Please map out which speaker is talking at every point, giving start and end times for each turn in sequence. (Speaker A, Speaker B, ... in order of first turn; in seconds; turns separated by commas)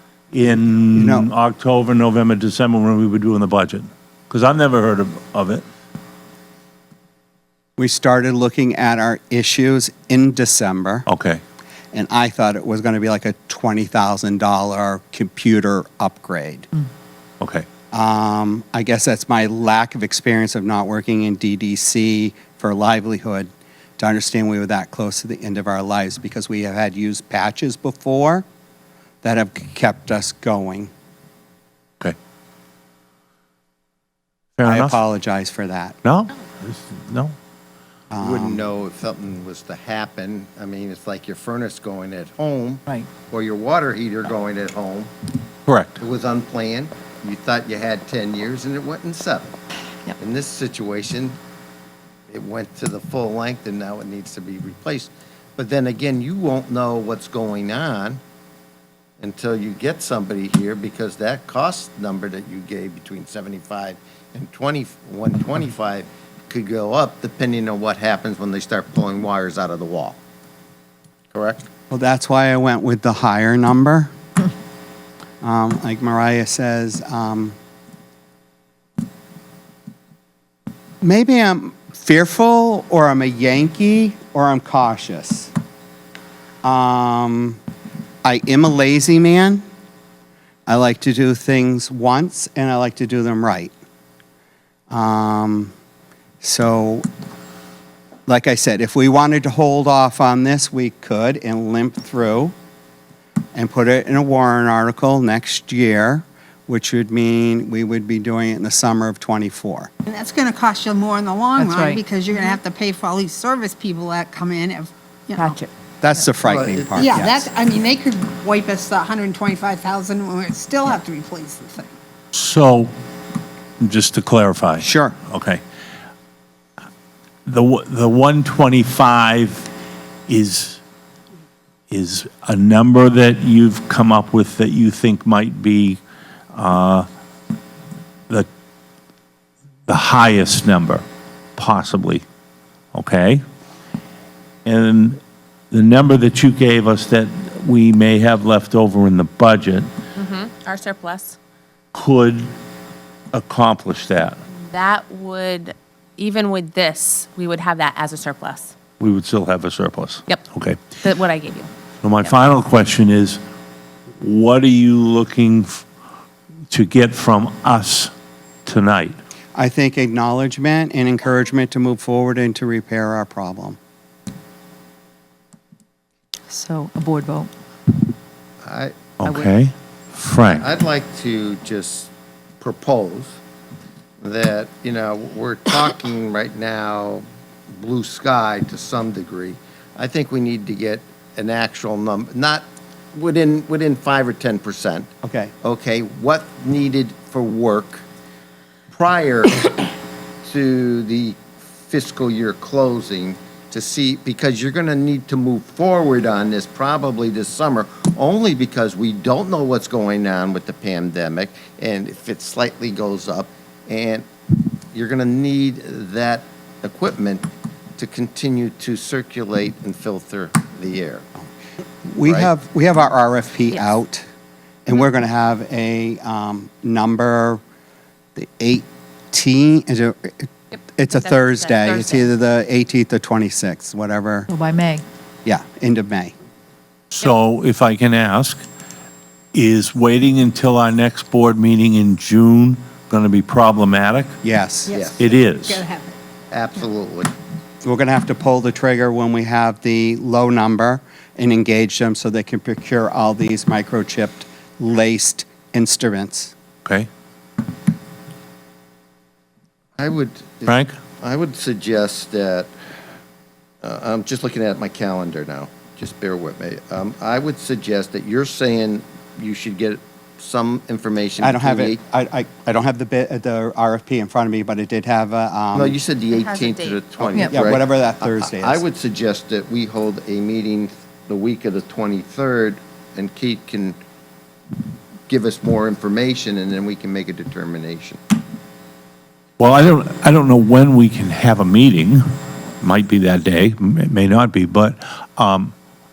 Speaker A: 0.3-5.6, Speaker B: 0.9-1.3, Speaker B: 7.8-11.1, Speaker A: 11.1-11.4, Speaker B: 11.9-16.7, Speaker A: 17.4-17.7, Speaker B: 17.9-28.4, Speaker B: 29.2-30.9, Speaker A: 34.6-35.0, Speaker B: 34.6-36.0, Speaker A: 36.0-37.4, Speaker B: 38.1-38.6, Speaker C: 38.2-45.1, Speaker A: 45.7-46.0, Speaker C: 46.0-49.6, Speaker C: 50.2-51.4, Speaker C: 52.3-58.2, Speaker C: 59.2-70.2, Speaker C: 71.3-71.7, Speaker B: 71.9-74.1, Speaker B: 75.4-77.5, Speaker B: 81.0-85.5, Speaker B: 86.6-87.6, Speaker B: 88.2-89.7, Speaker B: 90.7-93.7, Speaker B: 94.9-95.7, Speaker B: 96.4-97.1, Speaker B: 98.3-102.5, Speaker B: 103.5-109.9, Speaker D: 110.1-115.6, Speaker E: 111.6-112.5, Speaker E: 115.4-115.7, Speaker B: 116.0-117.5, Speaker C: 116.4-117.4, Speaker D: 117.0-121.9, Speaker A: 122.3-122.9, Speaker A: 123.8-125.6, Speaker B: 124.8-125.2, Speaker A: 127.5-129.7, Speaker A: 130.3-130.8, Speaker A: 131.9-136.0, Speaker A: 136.5-137.1, Speaker A: 139.9-141.1, Speaker A: 141.6-142.2, Speaker A: 142.9-143.4, Speaker A: 144.7-149.9, Speaker F: 150.2-151.4, Speaker A: 151.9-152.5, Speaker A: 153.3-154.4, Speaker F: 154.7-158.7, Speaker A: 159.0-160.9, Speaker F: 161.0-161.7, Speaker A: 162.0-163.4, Speaker A: 164.2-165.8, Speaker A: 166.7-168.1, Speaker A: 168.7-169.2, Speaker B: 169.6-173.8, Speaker E: 176.5-177.5, Speaker C: 178.6-179.1, Speaker A: 179.2-180.7, Speaker C: 180.6-183.4, Speaker C: 184.2-195.1, Speaker B: 195.2-195.5, Speaker C: 195.6-198.1, Speaker C: 198.9-199.9, Speaker C: 200.4-214.3, Speaker C: 214.9-221.2, Speaker B: 222.1-224.2, Speaker C: 222.2-222.5, Speaker B: 224.9-227.6, Speaker B: 228.4-234.5, Speaker F: 231.1-232.3, Speaker E: 234.5-235.1, Speaker B: 235.4-236.3, Speaker A: 237.1-238.6, Speaker A: 239.5-244.4, Speaker B: 244.4-244.9, Speaker D: 244.9-246.2, Speaker C: 244.9-245.2, Speaker A: 245.2-245.8, Speaker C: 246.5-247.3, Speaker B: 247.8-256.5, Speaker C: 260.0-262.7, Speaker A: 260.7-260.9, Speaker C: 263.8-272.0, Speaker B: 271.4-276.0, Speaker C: 275.7-284.0, Speaker F: 276.3-277.0, Speaker B: 277.3-278.8, Speaker C: 285.3-288.2, Speaker A: 289.6-292.2, Speaker A: 292.8-295.7